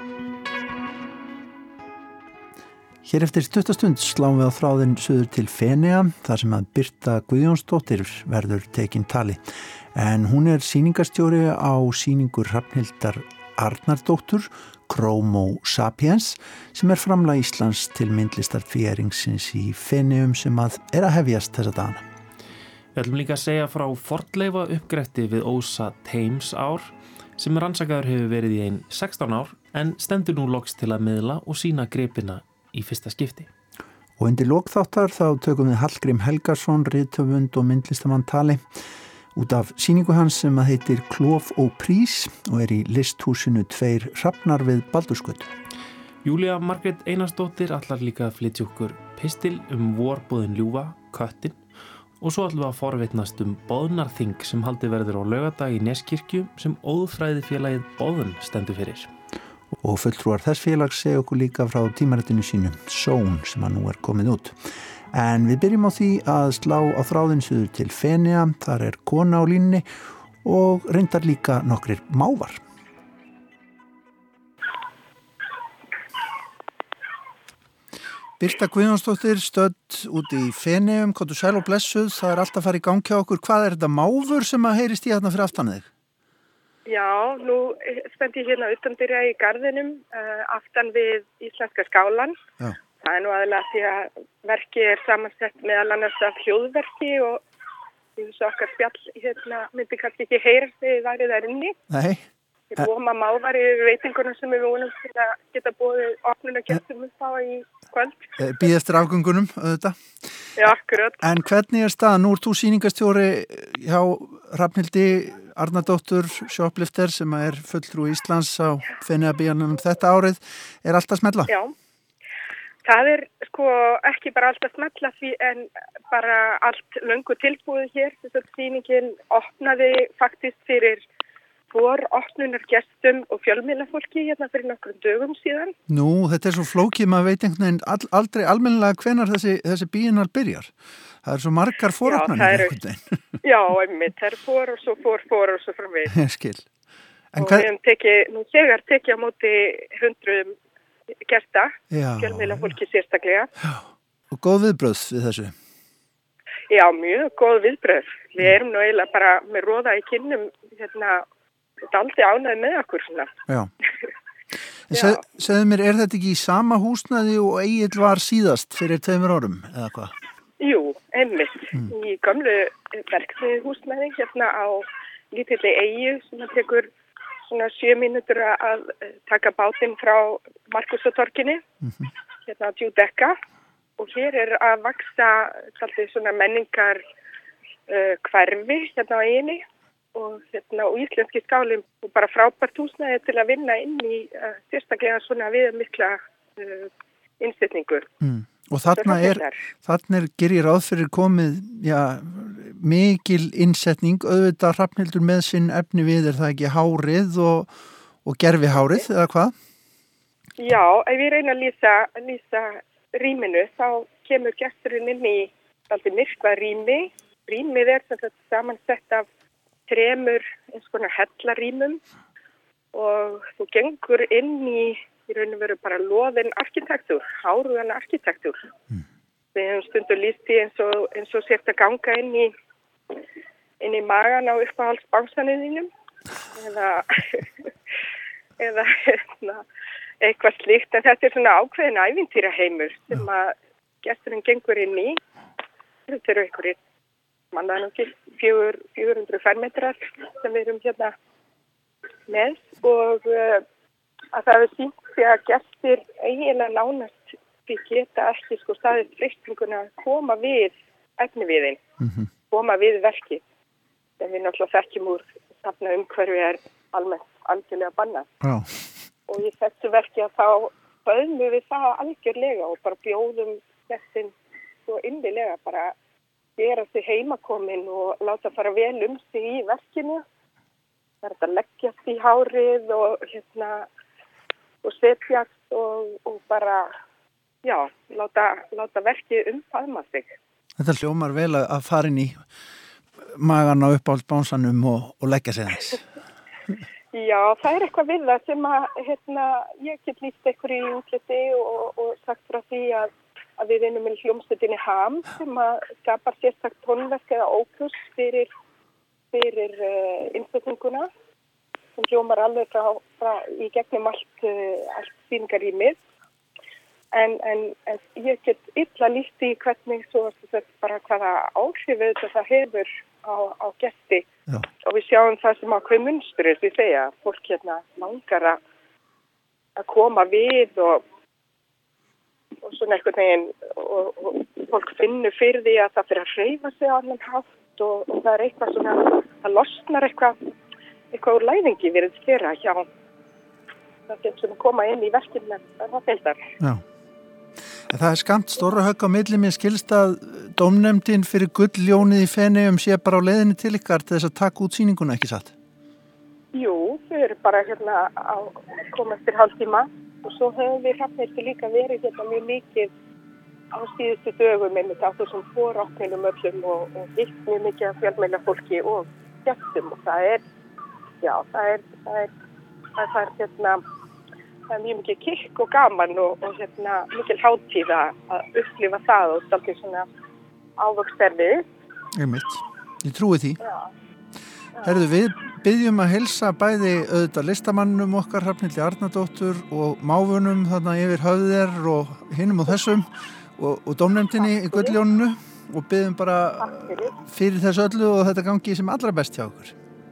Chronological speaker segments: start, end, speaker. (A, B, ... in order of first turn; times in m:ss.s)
0:03.0-0:22.0 A
0:23.0-0:33.5 B
0:34.2-0:38.7 A
0:39.4-0:45.5 A
0:46.2-0:51.6 B
0:52.2-0:59.1 B
0:59.8-1:04.6 A
1:05.1-1:09.9 A
1:10.4-1:12.6 A
1:18.4-1:25.9 A
1:26.9-1:32.4 C
1:33.0-1:37.4 C
1:38.2-1:41.8 C
1:41.9-1:42.3 A
1:42.7-1:48.3 C
1:48.4-2:01.5 A
1:50.6-1:51.2 C
2:01.5-2:01.7 C
2:02.8-2:11.0 C
2:11.7-2:15.8 C
2:15.9-2:23.4 A
2:22.0-2:22.7 C
2:23.4-2:26.1 C
2:26.1-2:26.7 A
2:27.3-2:27.7 A
2:27.4-2:30.6 C
2:31.2-2:33.5 C
2:31.9-2:32.8 A
2:33.6-2:35.6 A
2:36.7-2:41.2 C
2:41.8-2:43.3 C
2:44.9-2:50.2 A
2:44.9-2:45.2 C
2:50.6-2:56.9 C
2:57.5-3:01.6 C
3:01.8-3:02.1 A
3:02.5-3:03.4 C
3:04.0-3:07.0 C
3:07.9-3:09.6 C
3:10.2-3:16.9 C
3:17.4-3:18.1 C
3:18.2-3:27.7 A
3:18.9-3:19.6 C
3:28.2-3:29.6 A
3:30.6-3:39.3 C
3:39.9-3:42.0 C
3:42.9-3:48.7 C
3:49.6-3:52.5 C
3:53.8-3:55.9 C
3:56.5-3:57.5 C
3:58.6-3:59.6 C
4:00.2-4:05.2 C
4:06.1-4:06.8 C
4:07.5-4:11.1 C
4:12.3-4:13.6 C
4:14.3-4:21.8 C
4:22.0-4:22.3 A
4:22.5-4:23.4 C
4:24.2-4:28.3 C
4:28.4-4:28.8 A
4:29.3-4:34.3 C
4:34.9-4:36.0 C
4:36.6-4:40.2 C
4:41.2-4:43.9 C
4:44.8-4:46.9 C
4:47.6-4:50.3 C
4:50.8-4:52.4 A
4:53.2-4:56.1 A
4:57.1-5:08.5 C
5:09.3-5:11.1 C
5:12.0-5:16.0 C
5:17.1-5:24.3 C
5:24.8-5:28.6 C
5:29.8-5:31.0 C
5:32.6-5:40.4 C
5:41.1-5:42.9 C
5:44.1-5:46.4 C
5:47.9-5:55.6 A
5:56.5-6:02.9 C
6:03.7-6:10.4 C
6:11.2-6:12.3 C
6:13.0-6:13.8 C
6:14.7-6:20.1 C
6:20.8-6:21.6 C
6:22.2-6:23.6 A
6:24.8-6:39.8 A
6:34.5-6:35.0 C
6:36.6-6:37.1 C